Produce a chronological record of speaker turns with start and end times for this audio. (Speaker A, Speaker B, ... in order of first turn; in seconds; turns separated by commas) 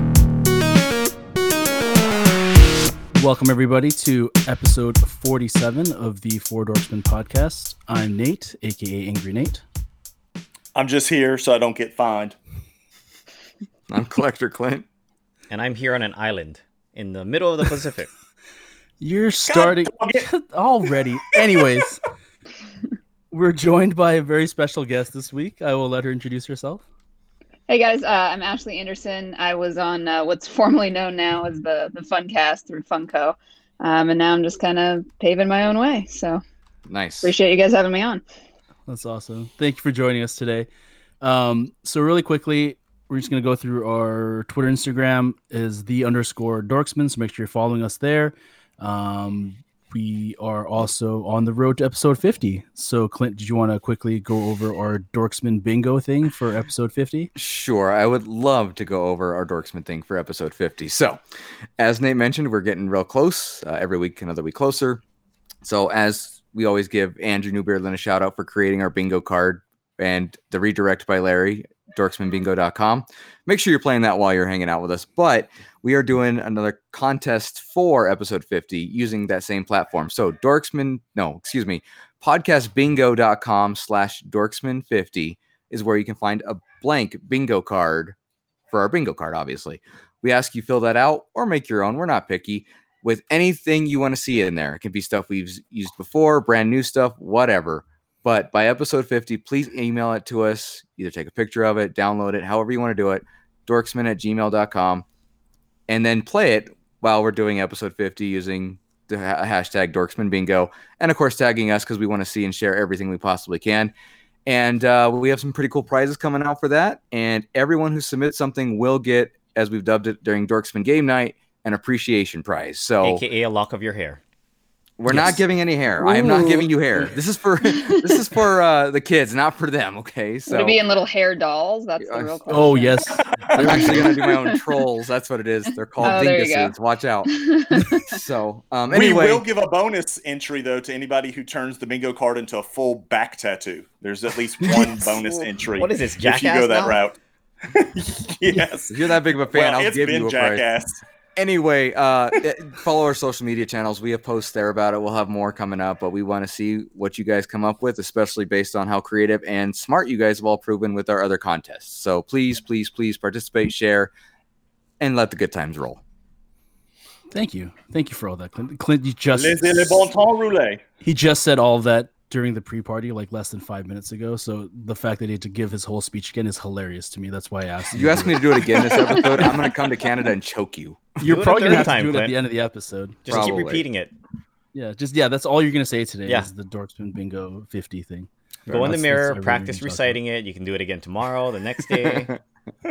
Speaker A: 3.1-9.6, Speaker B: 10.7-12.3, Speaker C: 13.9-14.8, Speaker D: 15.5-18.1, Speaker A: 19.0-22.0, Speaker B: 19.4-20.3, Speaker A: 23.3-26.8, Speaker E: 27.7-36.4, Speaker C: 36.9-37.3, Speaker E: 37.2-38.2, Speaker A: 38.9-40.7, Speaker A: 41.2-57.3, Speaker C: 57.4-61.2, Speaker C: 61.8-65.0, Speaker C: 65.6-88.1, Speaker C: 88.7-105.0, Speaker C: 105.9-113.9, Speaker C: 114.5-123.2, Speaker D: 123.0-124.2, Speaker C: 125.0-130.8, Speaker A: 125.1-125.4, Speaker A: 126.0-127.1, Speaker E: 126.0-126.7, Speaker E: 127.7-128.2, Speaker E: 130.5-133.0, Speaker C: 132.0-132.3, Speaker A: 132.5-134.2, Speaker C: 133.6-137.3, Speaker E: 136.0-136.7, Speaker E: 137.2-138.2, Speaker C: 137.9-139.4, Speaker B: 138.9-147.2, Speaker D: 145.8-147.0, Speaker B: 147.7-151.0, Speaker C: 148.9-150.6, Speaker C: 151.3-164.1, Speaker C: 165.0-166.0, Speaker A: 167.3-170.1, Speaker B: 169.3-170.8, Speaker A: 171.0-178.8, Speaker C: 177.9-181.2, Speaker A: 181.2-183.4, Speaker D: 181.2-182.3, Speaker D: 183.2-184.1, Speaker C: 183.3-183.8, Speaker A: 184.7-190.2, Speaker C: 188.7-188.9, Speaker D: 188.7-192.4